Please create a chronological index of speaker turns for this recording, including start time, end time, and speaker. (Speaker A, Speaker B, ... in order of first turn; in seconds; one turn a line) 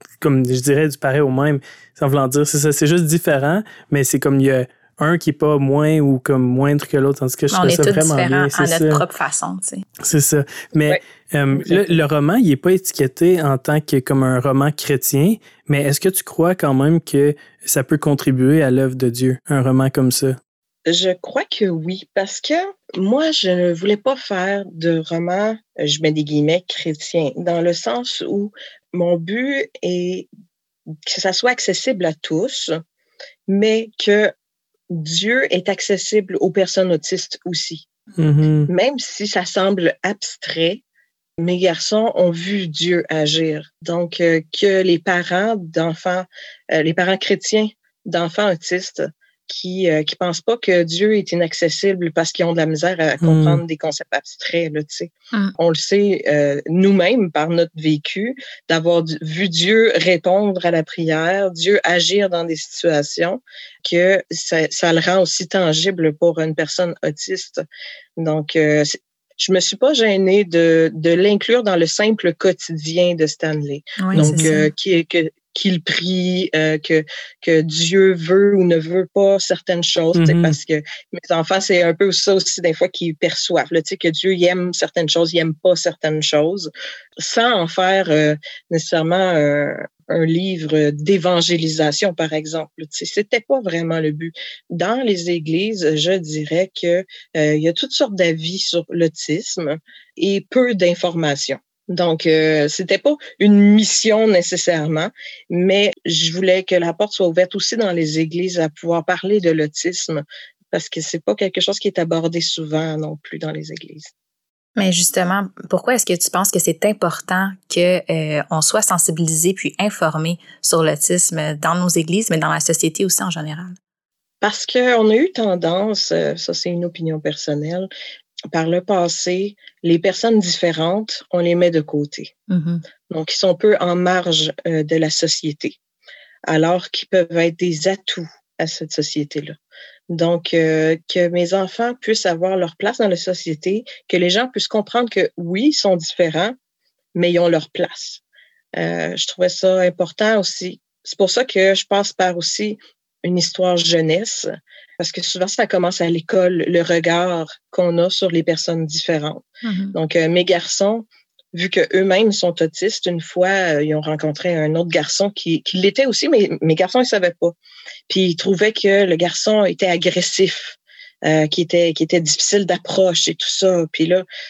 Speaker A: 0.2-9.0
Speaker B: 7.5-9.8
Speaker A: 10.0-20.4
Speaker C: 20.9-30.3
Speaker C: 31.1-32.8
Speaker C: 33.5-34.3
Speaker C: 34.9-37.9
Speaker A: 38.2-38.7
Speaker C: 38.7-40.8
Speaker C: 41.4-67.6
Speaker A: 53.2-53.6
Speaker C: 68.2-114.1
Speaker B: 74.0-74.7
Speaker A: 74.1-74.5
Speaker A: 80.1-80.6
Speaker B: 114.8-123.8
Speaker C: 124.4-127.9
Speaker C: 128.5-132.3
Speaker B: 132.5-132.8
Speaker C: 133.1-135.8
Speaker C: 136.5-139.6
Speaker C: 140.1-146.5
Speaker C: 147.1-148.2
Speaker C: 148.8-167.5
Speaker B: 159.6-159.9
Speaker C: 168.1-174.2